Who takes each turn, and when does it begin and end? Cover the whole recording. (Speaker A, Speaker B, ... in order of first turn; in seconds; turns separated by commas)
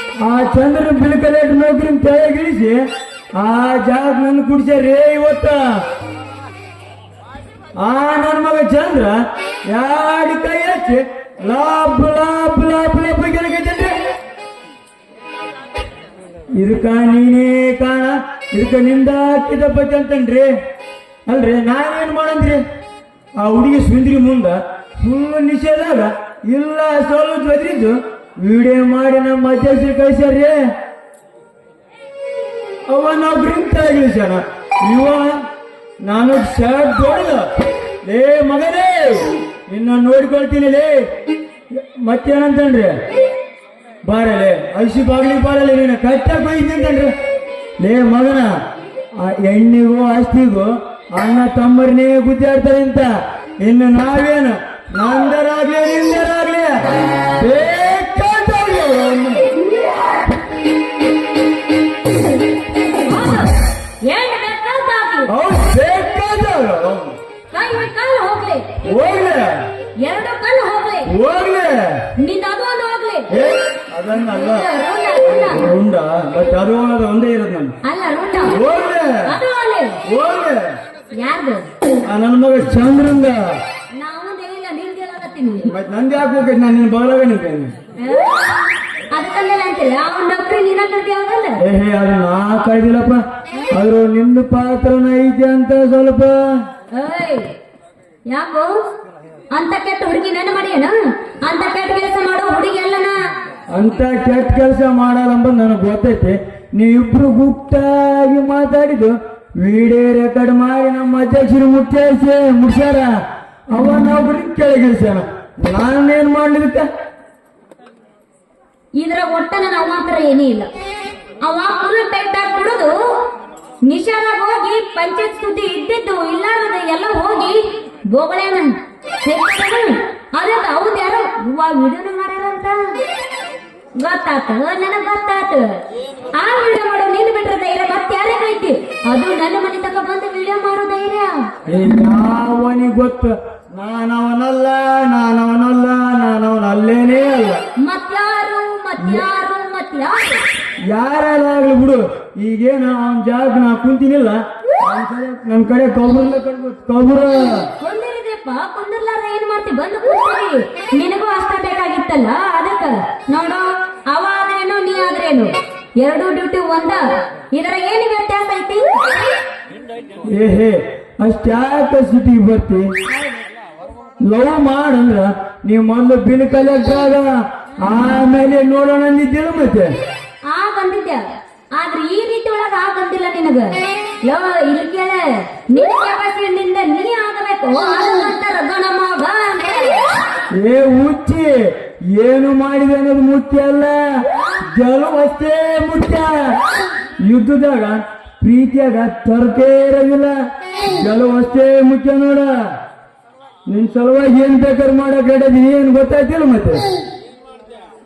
Speaker A: 0.2-2.8, Speaker A: 3.4-5.6, Speaker A: 7.8-14.0, Speaker A: 16.6-20.5, Speaker A: 21.3-22.6, Speaker A: 23.4-30.7, Speaker A: 32.9-35.4, Speaker A: 36.0-37.5, Speaker A: 38.0-41.1, Speaker A: 41.8-43.0, Speaker A: 44.1-47.1, Speaker A: 47.8-48.5, Speaker A: 49.1-53.1, Speaker A: 53.6-56.9, Speaker A: 57.4-59.5, Speaker B: 63.0-65.3, Speaker A: 65.3-67.2, Speaker B: 67.5-68.8, Speaker A: 68.8-69.7, Speaker B: 70.0-71.1, Speaker A: 71.1-72.1, Speaker B: 72.2-73.3, Speaker A: 73.3-74.7, Speaker B: 74.2-75.7, Speaker A: 75.5-77.8, Speaker B: 77.8-78.6, Speaker A: 78.4-79.3, Speaker B: 79.3-80.0, Speaker A: 80.1-80.7, Speaker B: 81.2-81.7, Speaker A: 82.1-83.5, Speaker B: 83.9-85.7, Speaker A: 85.7-87.7, Speaker B: 88.0-91.6, Speaker A: 91.6-96.4, Speaker B: 96.9-97.5, Speaker B: 98.3-98.7, Speaker B: 99.5-103.2, Speaker A: 103.7-113.1, Speaker A: 113.7-116.9, Speaker B: 119.0-120.7, Speaker B: 121.4-123.3, Speaker B: 123.9-132.8, Speaker B: 134.0-135.8, Speaker B: 136.3-141.5, Speaker A: 141.7-147.6, Speaker B: 147.8-150.4, Speaker A: 150.9-157.7, Speaker B: 157.8-169.2, Speaker A: 170.3-172.9, Speaker A: 174.2-179.9, Speaker B: 180.5-190.2, Speaker A: 190.5-194.0, Speaker B: 194.3-194.6, Speaker A: 194.7-196.6, Speaker A: 197.2-202.5, Speaker A: 203.7-206.8